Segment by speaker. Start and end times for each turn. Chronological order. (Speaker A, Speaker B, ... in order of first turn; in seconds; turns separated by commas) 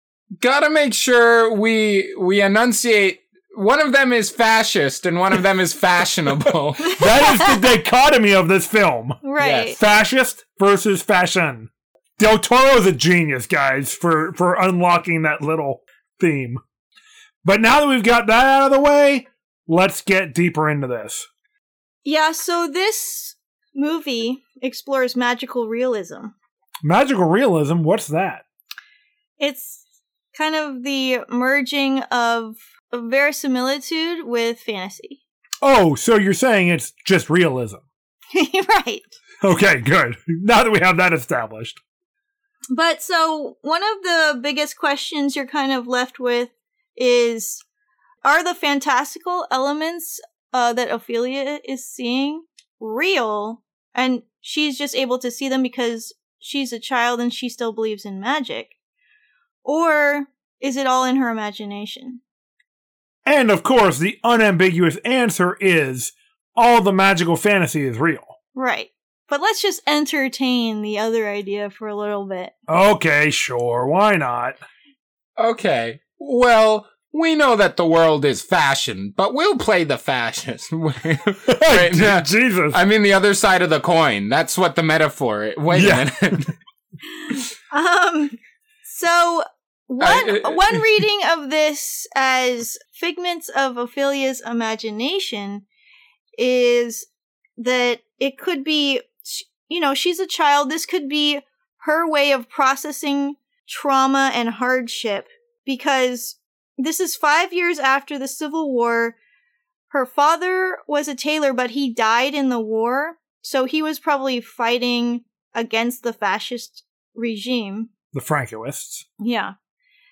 Speaker A: 0.4-7.0, Speaker B: 6.8-9.2, Speaker C: 6.9-7.3, Speaker C: 9.2-9.8, Speaker A: 9.4-9.8, Speaker B: 9.8-16.6, Speaker B: 17.4-21.3, Speaker C: 22.0-26.3, Speaker B: 26.8-28.4, Speaker C: 29.4-29.8, Speaker C: 30.3-35.2, Speaker B: 35.6-37.8, Speaker C: 38.3-39.1, Speaker B: 39.4-41.8, Speaker C: 42.7-47.6, Speaker C: 48.2-58.7, Speaker C: 59.6-62.2, Speaker B: 63.2-68.3, Speaker C: 68.5-72.5, Speaker B: 72.7-74.6, Speaker A: 75.4-86.5, Speaker B: 81.5-82.8, Speaker B: 85.7-86.5, Speaker C: 87.7-95.6, Speaker A: 90.0-90.9, Speaker C: 96.4-97.1, Speaker C: 97.6-109.2, Speaker C: 109.9-117.9, Speaker B: 118.1-119.0, Speaker C: 119.2-119.5